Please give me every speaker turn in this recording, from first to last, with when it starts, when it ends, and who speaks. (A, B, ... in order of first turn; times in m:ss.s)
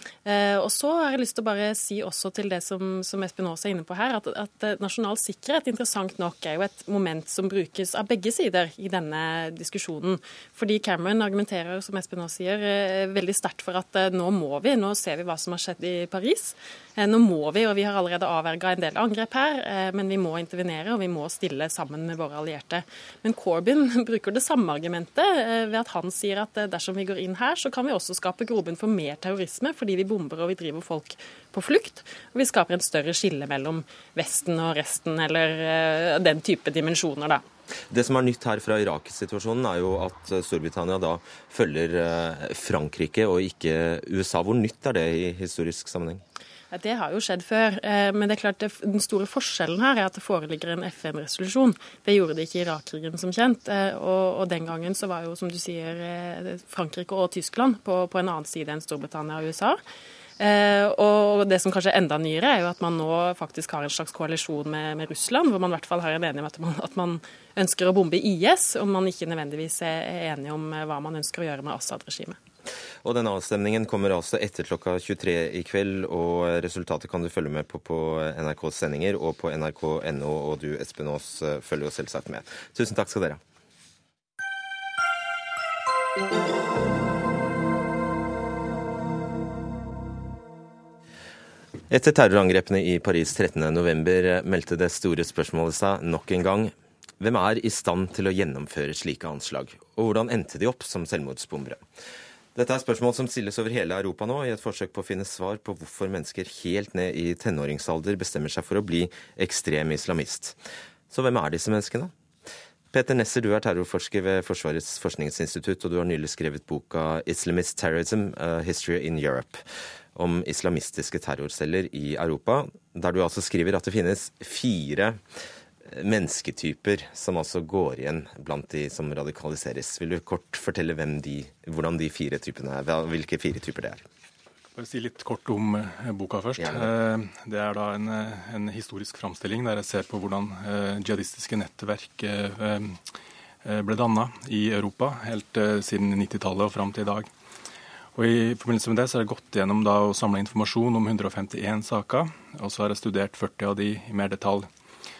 0:00.2-0:37.4 A
0:37.9-0:46.2 B
0:46.7-0:59.8 A
1:00.4-1:12.4 A
1:13.0-1:23.4 B
1:31.9-1:41.8 B
1:42.5-1:50.6 B
1:51.1-1:52.1 B
1:52.9-1:59.6 B
2:00.1-2:05.2 B
2:05.9-2:14.0 B
2:14.8-2:23.0 C
2:16.6-2:16.9 B
2:23.6-2:27.3 C
2:28.2-2:34.7 C